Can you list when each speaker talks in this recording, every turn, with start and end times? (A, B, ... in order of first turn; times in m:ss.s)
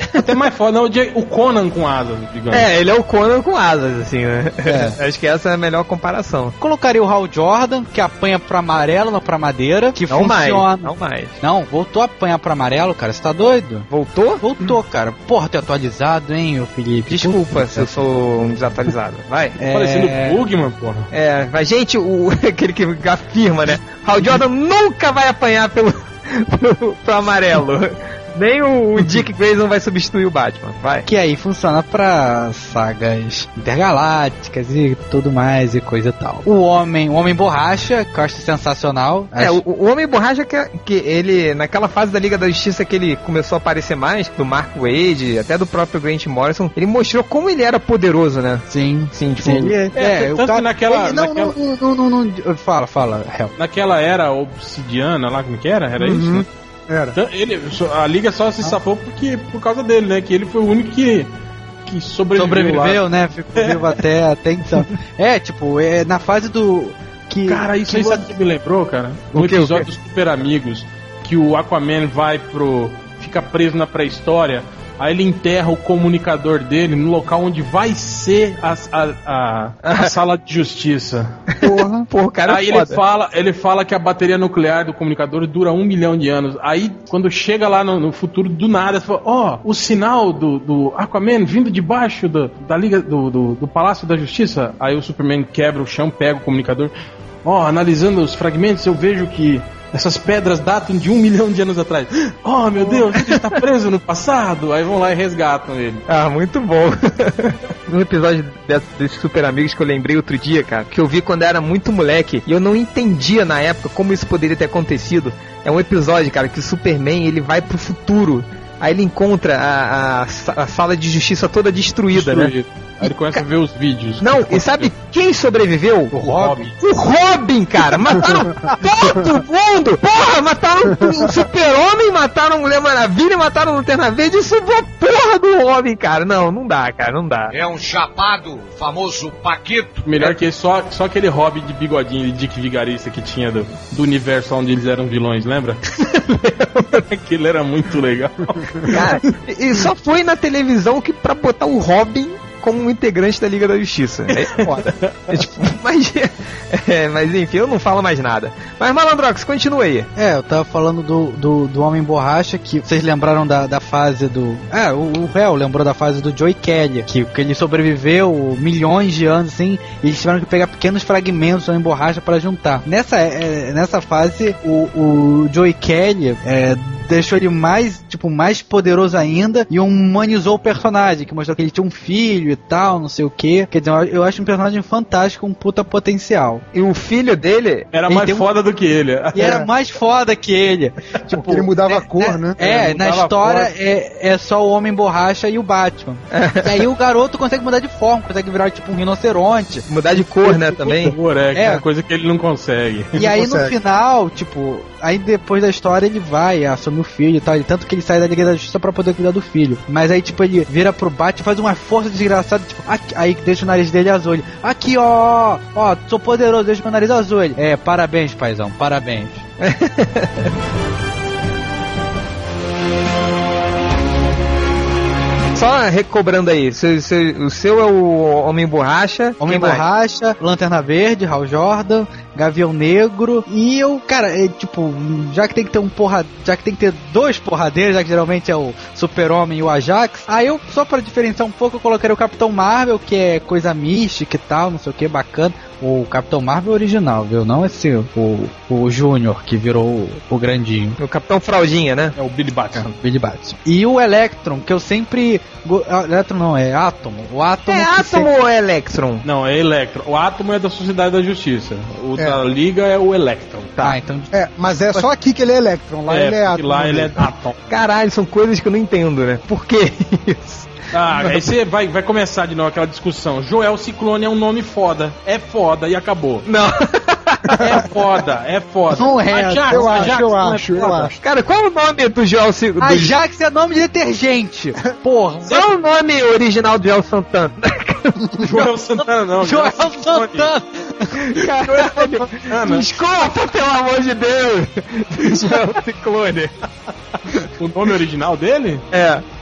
0:00.2-0:02.7 A
0:02.5-0:06.6 B
0:04.6-0:05.0 C
0:06.6-0:13.9 C
0:10.1-0:11.4 B
0:13.9-0:14.4 B
0:14.4-0:17.9 C
0:17.1-0:19.6 B
0:19.6-0:20.4 C
0:19.7-0:21.1 A
0:21.1-0:31.1 B
0:31.1-0:39.6 C
0:39.4-0:49.8 B
0:48.7-0:53.5 C
0:50.0-0:51.6 A
0:53.6-0:56.5 A
0:56.0-0:57.2 D
0:57.2-1:01.3 A
1:01.9-1:03.0 A
1:02.4-1:08.3 C
1:03.6-1:04.0 A
1:07.5-1:21.4 A
1:09.3-1:09.9 B
1:19.8-1:20.1 B
1:21.6-1:23.0 B
1:21.6-1:22.1 D
1:22.5-1:36.9 A
1:37.4-1:46.1 A
1:42.9-1:43.4 B
1:46.1-2:03.4 B
2:02.1-2:04.9 A
2:04.2-2:06.1 B
2:06.1-2:06.7 C
2:06.3-2:06.7 A
2:06.8-2:17.5 B
2:08.3-2:09.3 D
2:10.9-2:11.3 D
2:17.5-2:20.1 E
2:20.0-2:29.0 A
2:28.9-2:40.1 B
2:34.4-2:35.3 A
2:40.2-3:06.6 C
3:06.7-3:07.9 B
3:07.9-3:09.7 A
3:08.1-3:08.5 C
3:09.4-3:19.9 C
3:09.4-3:09.7 D
3:11.3-3:12.6 D
3:12.6-3:13.7 A
3:16.3-3:16.8 B
3:19.9-3:21.2 B
3:20.4-3:23.3 A
3:21.5-3:21.8 C
3:23.2-3:39.4 C
3:23.3-3:23.8 D
3:39.6-3:40.5 B
3:45.6-3:49.8 B
3:49.4-4:11.0 C
4:11.0-4:12.2 B
4:12.2-4:12.9 A
4:12.7-4:18.3 C
4:17.7-4:19.3 B
4:19.2-4:23.8 A
4:23.8-4:25.1 C
4:24.3-4:27.3 D
4:26.1-4:27.6 A
4:27.7-4:30.7 B
4:30.9-4:36.5 A
4:36.5-4:37.6 B
4:37.6-4:41.2 A
4:38.9-4:40.1 C
4:39.7-4:41.1 D
4:41.2-4:43.2 B
4:42.8-4:45.7 C
4:45.5-4:48.2 B
4:48.2-4:48.6 D
4:48.4-4:50.5 A
4:49.4-4:51.3 C
4:51.3-4:56.5 B
4:51.6-4:52.9 A
4:57.6-4:58.8 A
4:58.9-4:59.2 B